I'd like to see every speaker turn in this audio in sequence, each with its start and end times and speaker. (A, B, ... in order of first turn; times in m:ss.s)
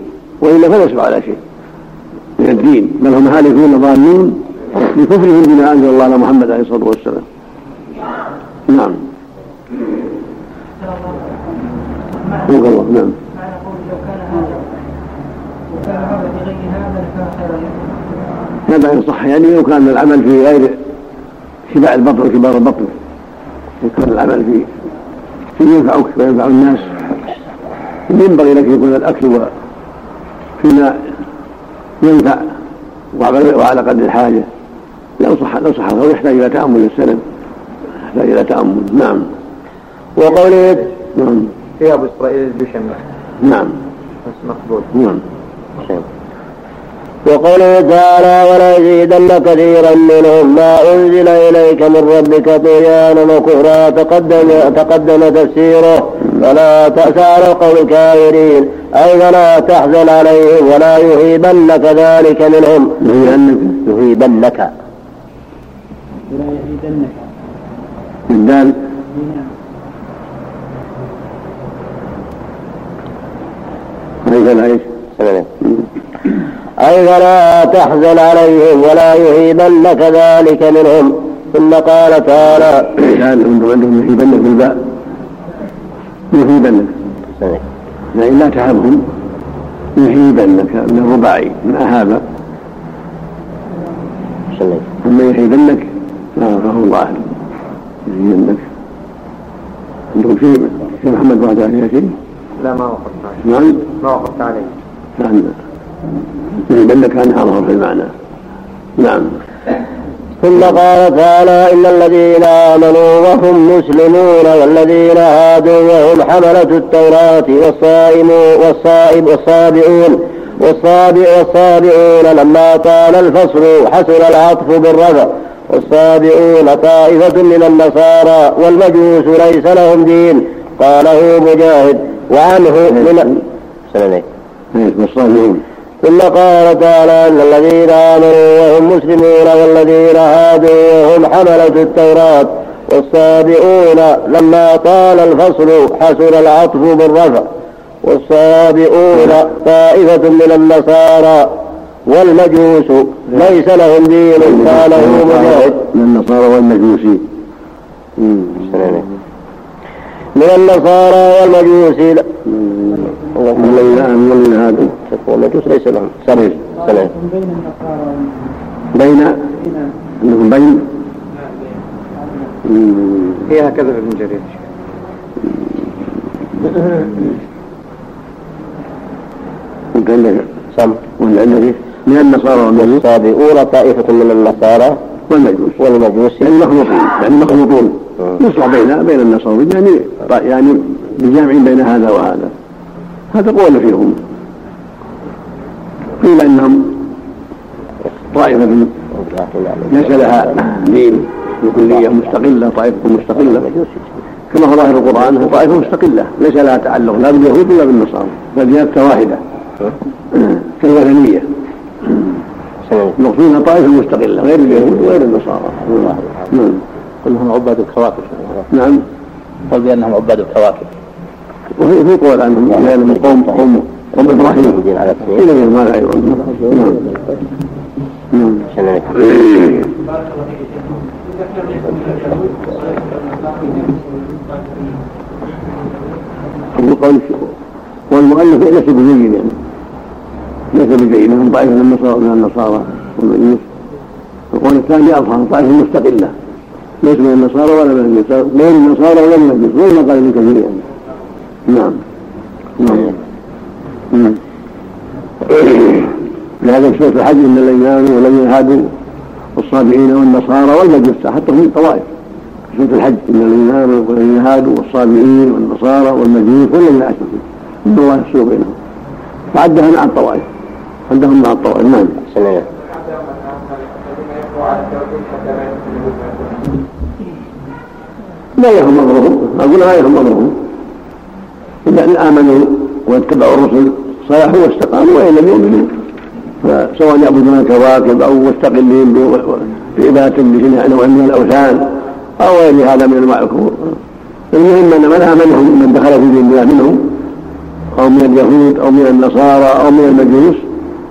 0:00.4-0:01.4 A
0:02.4-0:07.3 A
0:08.7-0:09.0 A
0:12.4-0:13.2 A
0:13.4-0:14.7 B
0:15.7-0:18.0 B
0:18.7-0:20.8 A
0:21.7-0:22.9 A
0:23.8-0:24.7 A
0:25.6-0:26.9 A
0:28.1-0:29.5 A
0:30.6-0:31.0 A
0:32.0-0:32.4 A
0:33.2-0:34.5 A
0:35.2-0:37.2 A
0:38.1-0:39.3 A
0:40.2-0:40.9 C
0:41.2-0:41.5 A
0:41.8-0:43.0 D
0:43.4-0:43.8 A
0:44.2-0:44.9 D
0:44.9-0:45.2 A
0:47.2-1:03.0 C
1:03.0-1:03.8 A
1:03.8-1:04.7 C
1:06.3-1:07.3 B
1:08.3-1:08.8 A
1:09.2-1:09.4 B
1:14.2-1:14.8 A
1:15.2-1:15.5 C
1:16.8-1:22.9 C
1:23.0-1:24.8 A
1:26.3-1:26.9 A
1:27.4-1:27.6 C
1:28.1-1:29.0 A
1:30.0-1:32.2 A
1:34.5-1:34.8 C
1:35.0-1:37.3 A
1:38.1-1:38.7 A
1:40.1-1:42.1 A
1:42.6-1:44.7 D
1:43.4-1:43.8 A
1:45.2-1:45.6 A
1:46.6-1:48.1 A
1:49.0-1:49.3 A
1:50.4-2:13.4 C
2:13.9-2:14.2 C
2:14.7-2:15.6 A
2:16.0-2:27.5 C
2:28.0-2:31.6 C
2:32.1-2:35.8 C
2:34.6-2:37.3 A
2:38.2-2:38.7 A
2:38.6-2:39.0 C
2:40.4-2:42.3 C
2:43.3-2:43.8 C
2:43.6-2:45.0 A
2:45.1-2:47.1 C
2:46.8-2:48.5 B
2:48.9-2:49.4 A
2:50.2-2:50.9 A
2:52.6-2:53.5 A
2:53.5-2:54.6 D
2:59.9-3:00.5 A
3:00.8-3:01.0 C
3:01.2-3:03.0 A
3:02.8-3:05.0 C
3:05.3-3:05.8 A
3:05.8-3:06.6 C
3:06.4-3:12.5 A
3:13.3-3:14.2 A
3:16.2-3:17.0 A
3:18.3-3:19.0 A
3:19.2-3:20.5 C
3:19.9-3:23.6 A
3:22.0-3:22.3 C
3:23.6-3:24.0 C
3:24.5-3:29.4 A
3:30.3-3:31.5 A
3:32.9-3:33.2 C
3:33.2-3:36.8 A
3:37.2-3:38.7 E
3:38.7-3:39.0 A
3:39.7-3:40.9 E
3:41.8-3:47.0 A
3:42.7-3:45.4 C
3:48.3-3:48.7 A
3:48.7-3:49.8 C
3:51.3-3:54.6 B
3:56.7-3:57.5 A
3:58.1-3:59.6 A
4:00.7-4:03.6 A
4:04.5-4:06.3 A
4:07.0-4:10.8 A
4:11.7-4:12.0 A
4:12.8-4:13.2 A
4:14.1-4:14.4 A
4:15.5-4:18.9 A
4:19.6-4:22.1 A
4:22.7-4:28.8 A
4:29.5-4:30.5 A
4:31.1-4:32.2 A
4:32.3-4:32.7 C
4:33.2-4:36.7 D
4:38.6-4:40.6 A
4:41.9-4:46.0 A
4:46.6-4:54.0 A
4:54.5-4:57.2 A
4:58.0-5:00.7 A